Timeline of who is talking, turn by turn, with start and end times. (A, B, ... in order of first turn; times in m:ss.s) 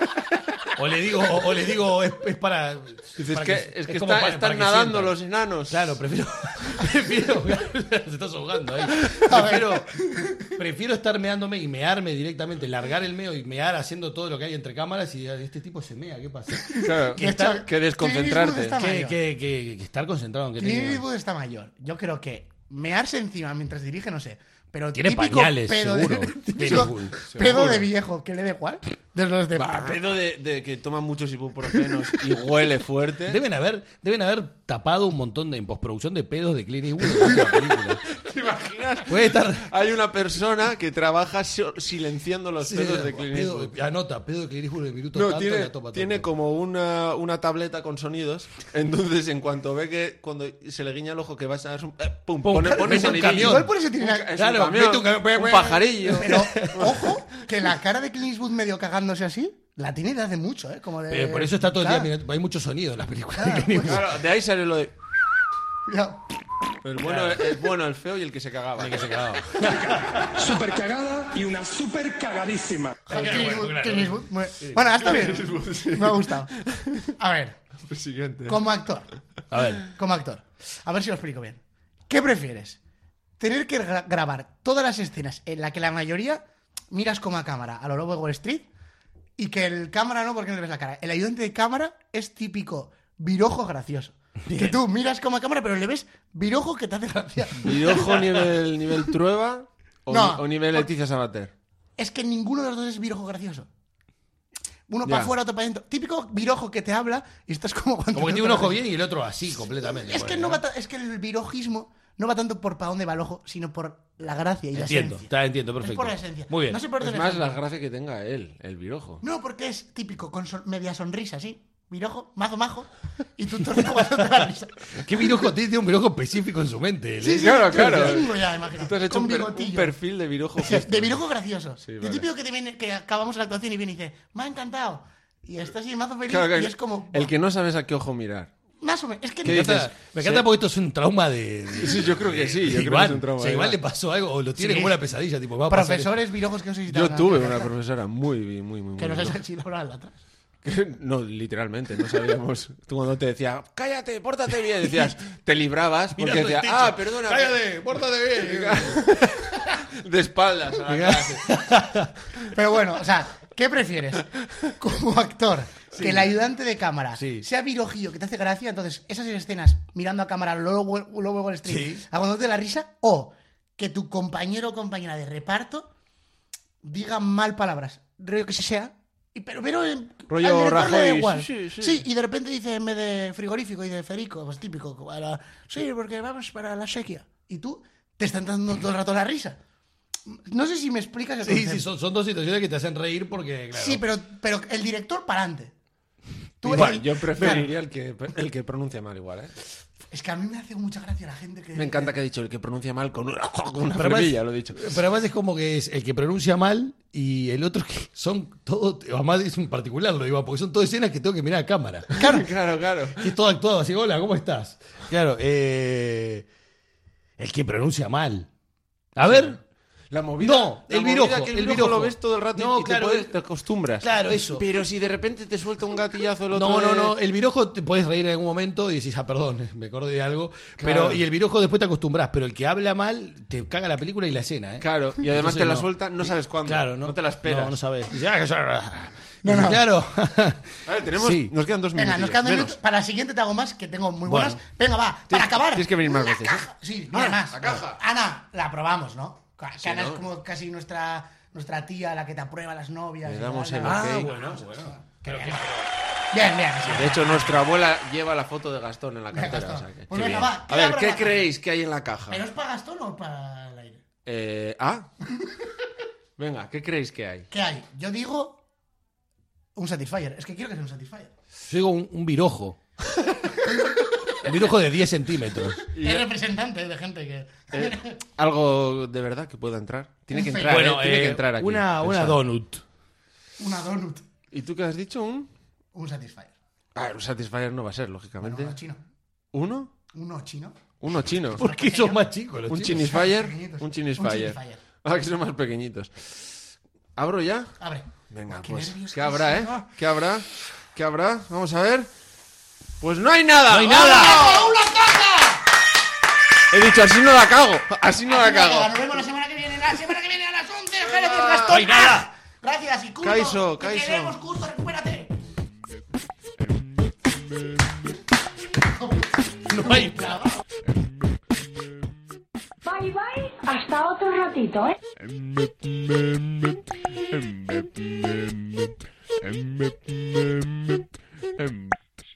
0:00.7-0:05.1 A
0:03.2-0:05.9 B
0:05.7-0:17.6 A
0:09.2-0:10.4 C
0:16.7-0:19.2 C
0:16.7-0:18.8 B
0:18.8-0:21.0 A
0:20.6-0:30.0 C
0:24.9-0:27.2 A
0:27.2-0:27.9 B
0:29.6-0:33.4 B
0:33.2-0:38.0 A
0:37.3-0:43.7 B
0:39.1-0:39.7 A
0:42.6-0:46.3 A
0:45.1-0:57.1 B
0:52.4-0:53.7 A
0:52.7-0:54.3 C
0:54.3-0:57.1 A
0:56.0-1:02.1 C
1:01.1-1:04.1 A
1:03.4-1:04.0 C
1:03.8-1:04.9 B
1:05.9-1:06.3 C
1:06.8-1:09.2 B
1:07.0-1:07.4 A
1:08.8-1:10.4 A
1:10.3-1:13.0 D
1:13.1-1:14.8 A
1:13.1-1:16.5 C
1:14.9-1:17.1 B
1:17.1-1:17.6 C
1:17.9-1:18.6 B
1:18.5-1:19.1 C
1:19.5-1:19.9 A
1:19.8-1:22.8 C
1:23.4-1:28.7 C
1:29.4-1:38.4 C
1:34.4-1:34.8 A
1:37.6-1:41.5 B
1:40.1-1:40.9 C
1:42.0-1:43.7 C
1:44.9-1:48.8 C
1:45.0-1:45.3 B
1:48.1-1:50.6 A
1:50.0-1:57.5 C
1:54.7-1:56.8 A
1:57.0-1:59.2 B
1:59.2-2:05.3 C
2:04.9-2:08.2 A
2:07.2-2:10.0 C
2:07.3-2:11.2 B
2:10.6-2:17.3 C
2:11.8-2:12.3 B
2:16.3-2:18.5 B
2:18.8-2:19.8 C
2:19.4-2:26.1 A
2:19.4-2:20.4 B
2:21.8-2:23.8 B
2:24.6-2:25.0 C
2:25.7-2:27.7 C
2:26.9-2:29.4 B
2:29.0-2:30.2 C
2:30.6-2:37.6 B
2:36.1-2:39.2 A
2:38.3-2:41.8 B
2:40.9-2:42.1 A
2:42.4-2:55.9 C
2:47.2-2:47.4 A
2:51.6-2:52.0 A
2:56.8-3:09.6 C
3:00.3-3:02.0 B
3:10.3-3:11.9 C
3:11.4-3:14.0 A
3:13.7-3:15.7 C
3:16.6-3:17.6 C
3:16.6-3:19.5 B
3:17.4-3:17.6 A
3:20.1-3:22.1 C
3:21.7-3:25.0 B
3:23.9-3:32.2 A
3:32.1-3:33.3 B
3:32.1-3:32.5 C
3:33.2-3:36.4 A
3:37.4-3:38.5 A
3:39.1-3:39.6 A
3:39.2-3:39.6 B
3:40.1-3:47.2 B
3:40.4-3:43.3 A
3:44.0-3:44.6 A
3:46.5-3:55.9 A
3:50.8-3:51.2 B
3:54.8-3:57.7 B
3:56.6-4:01.5 A
3:59.4-3:59.9 C
4:00.9-4:02.8 B
4:01.9-4:15.7 C
4:04.2-4:04.6 A
4:05.3-4:08.0 B
4:09.8-4:10.2 B
4:13.2-4:14.3 B
4:13.8-4:15.9 A
4:16.3-4:17.6 C
4:16.8-4:22.4 B
4:19.3-4:21.4 C
4:22.3-4:24.0 C
4:24.2-4:25.1 B
4:26.4-4:27.5 B
4:27.5-4:28.6 C
4:29.8-4:31.3 C
4:31.6-4:32.8 A
4:34.4-4:35.9 A
4:35.9-4:36.3 B
4:35.9-4:38.2 C
4:37.7-4:42.4 B
4:40.3-4:40.9 C
4:40.7-4:42.8 A
4:43.6-4:44.3 C
4:44.5-4:45.5 B
4:45.9-4:46.5 C
4:46.9-4:48.8 B
4:48.4-4:49.0 C
4:49.5-4:49.9 B
4:50.1-4:50.8 C
4:51.0-4:51.6 B
4:51.5-4:52.3 C
4:51.5-4:53.1 A
4:52.7-4:56.5 B
4:52.9-4:54.8 C
4:57.2-4:57.7 B
4:57.8-4:59.9 C
4:58.3-5:02.1 B
5:03.0-5:04.7 B
5:03.7-5:05.7 C
5:03.9-5:04.2 A
5:06.7-5:08.9 B
5:08.2-5:15.4 C
5:11.2-5:11.9 B
5:11.7-5:12.3 A
5:13.2-5:14.4 B
5:18.9-5:20.6 C
5:19.6-5:20.4 A
5:22.8-5:25.0 E
5:25.2-5:26.0 B
5:27.3-5:28.6 B
5:29.5-5:30.8 B